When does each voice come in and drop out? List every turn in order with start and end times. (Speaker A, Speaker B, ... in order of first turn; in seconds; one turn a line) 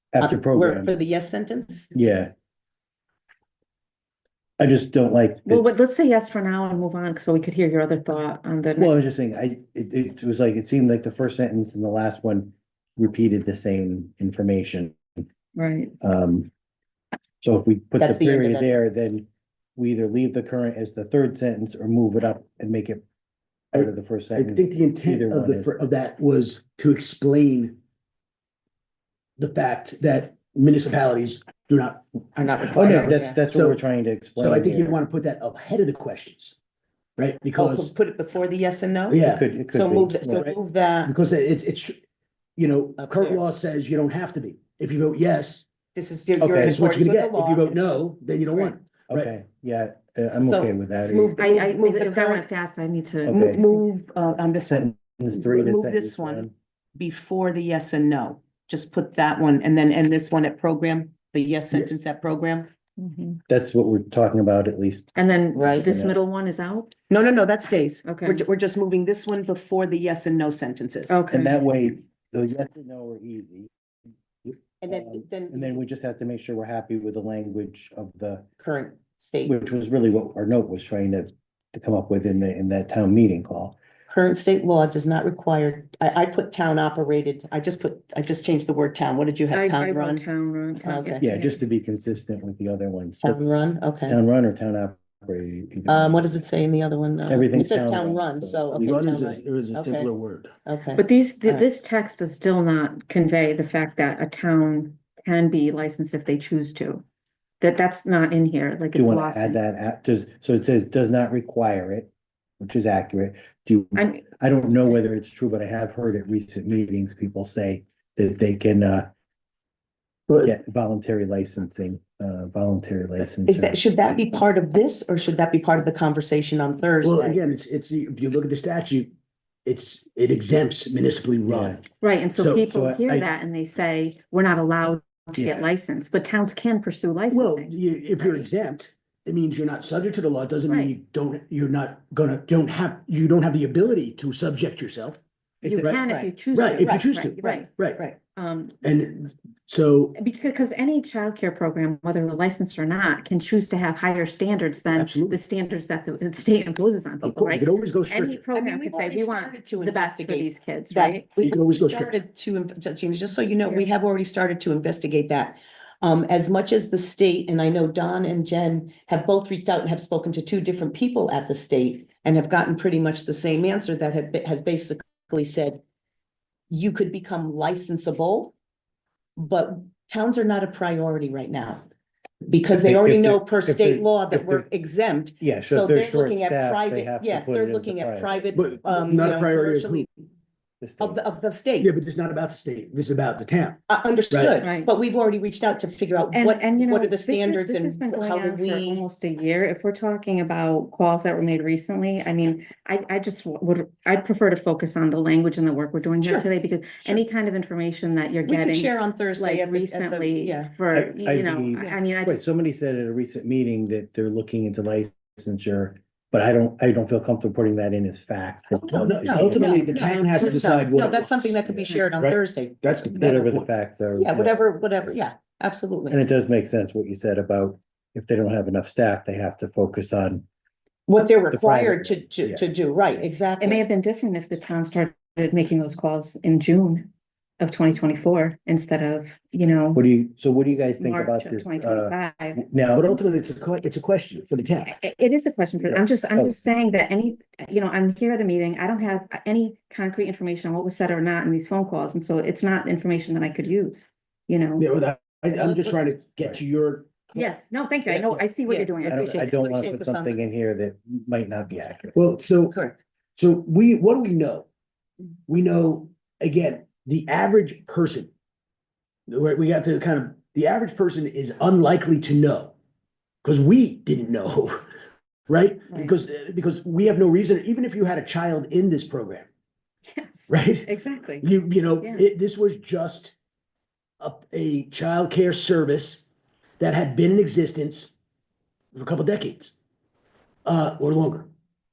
Speaker A: 0.1-0.9
Speaker B: 0.2-1.9
Speaker A: 1.9-2.3
Speaker A: 4.6-5.6
Speaker C: 5.5-9.0
Speaker A: 8.8-15.0
Speaker C: 15.6-15.9
Speaker A: 16.0-16.5
Speaker A: 17.4-23.0
Speaker B: 18.0-18.8
Speaker A: 23.7-25.8
Speaker D: 23.7-27.8
Speaker D: 29.4-32.0
Speaker B: 32.4-33.5
Speaker A: 32.7-35.0
Speaker D: 32.7-33.8
Speaker D: 34.4-36.6
Speaker D: 37.2-37.9
Speaker B: 37.5-41.1
Speaker D: 39.1-39.5
Speaker A: 39.2-40.5
Speaker D: 40.3-42.0
Speaker D: 42.6-45.7
Speaker B: 43.0-43.4
Speaker B: 46.0-47.8
Speaker A: 46.4-46.8
Speaker D: 46.5-49.3
Speaker A: 49.1-51.4
Speaker B: 50.4-52.5
Speaker C: 51.4-53.8
Speaker B: 53.3-62.7
Speaker A: 53.3-53.6
Speaker A: 54.7-56.5
Speaker C: 63.0-63.4
Speaker A: 63.5-66.2
Speaker C: 65.2-67.0
Speaker B: 65.6-65.9
Speaker B: 67.1-71.2
Speaker C: 68.1-68.5
Speaker C: 71.1-71.6
Speaker A: 71.3-73.7
Speaker A: 74.4-78.5
Speaker B: 74.8-75.8
Speaker B: 78.6-79.5
Speaker A: 79.5-83.8
Speaker B: 84.1-90.2
Speaker C: 89.5-91.6
Speaker B: 90.8-91.2
Speaker A: 91.2-93.4
Speaker B: 93.2-94.2
Speaker A: 94.1-96.3
Speaker B: 95.9-100.1
Speaker A: 97.3-99.4
Speaker D: 98.8-100.5
Speaker B: 100.7-101.7
Speaker C: 101.0-107.0
Speaker C: 107.6-109.6
Speaker A: 108.9-119.1
Speaker C: 114.0-114.3
Speaker A: 120.4-123.8
Speaker B: 123.5-127.4
Speaker D: 127.0-129.1
Speaker D: 129.7-133.3
Speaker A: 131.5-131.8
Speaker C: 132.0-138.5
Speaker A: 132.7-133.1
Speaker A: 135.4-135.7
Speaker D: 137.3-145.2
Speaker C: 140.7-140.9
Speaker A: 145.6-145.9
Speaker C: 145.7-147.7
Speaker D: 145.8-148.0
Speaker B: 145.9-148.2
Speaker C: 148.4-148.8
Speaker D: 148.8-150.2
Speaker C: 150.2-161.3
Speaker D: 154.9-155.4
Speaker D: 157.2-158.4
Speaker B: 158.5-175.8
Speaker D: 161.4-162.2
Speaker B: 176.7-178.5
Speaker B: 179.4-181.8
Speaker B: 182.4-190.1
Speaker A: 182.8-184.7
Speaker A: 185.4-188.6
Speaker D: 188.6-190.1
Speaker A: 190.8-191.2
Speaker B: 191.0-191.9
Speaker D: 191.8-194.6
Speaker B: 193.9-199.0
Speaker C: 194.6-194.9
Speaker C: 196.3-212.4
Speaker B: 206.2-206.5
Speaker B: 208.5-210.7
Speaker A: 210.9-220.4
Speaker B: 218.7-222.8
Speaker D: 218.9-221.6
Speaker A: 221.7-222.0
Speaker D: 222.2-223.7
Speaker A: 223.2-225.1
Speaker B: 224.2-226.2
Speaker A: 226.1-230.4
Speaker B: 231.1-233.9
Speaker A: 231.5-232.6
Speaker C: 233.6-240.0
Speaker A: 239.9-243.1
Speaker C: 241.0-242.7
Speaker D: 242.9-245.0
Speaker C: 244.9-254.9
Speaker A: 245.9-246.6
Speaker D: 254.8-257.5
Speaker B: 255.5-256.0
Speaker C: 257.4-259.9
Speaker D: 258.1-258.4
Speaker B: 258.7-260.4
Speaker A: 259.1-262.2
Speaker D: 262.1-262.8
Speaker B: 262.7-263.0
Speaker D: 263.4-264.7
Speaker D: 265.5-268.3
Speaker D: 269.3-272.8
Speaker D: 273.4-274.9
Speaker D: 275.5-279.5
Speaker C: 280.1-282.2
Speaker D: 280.5-280.9
Speaker D: 281.4-283.4
Speaker D: 284.2-286.2
Speaker D: 286.8-288.1
Speaker D: 288.9-289.7
Speaker D: 290.6-291.5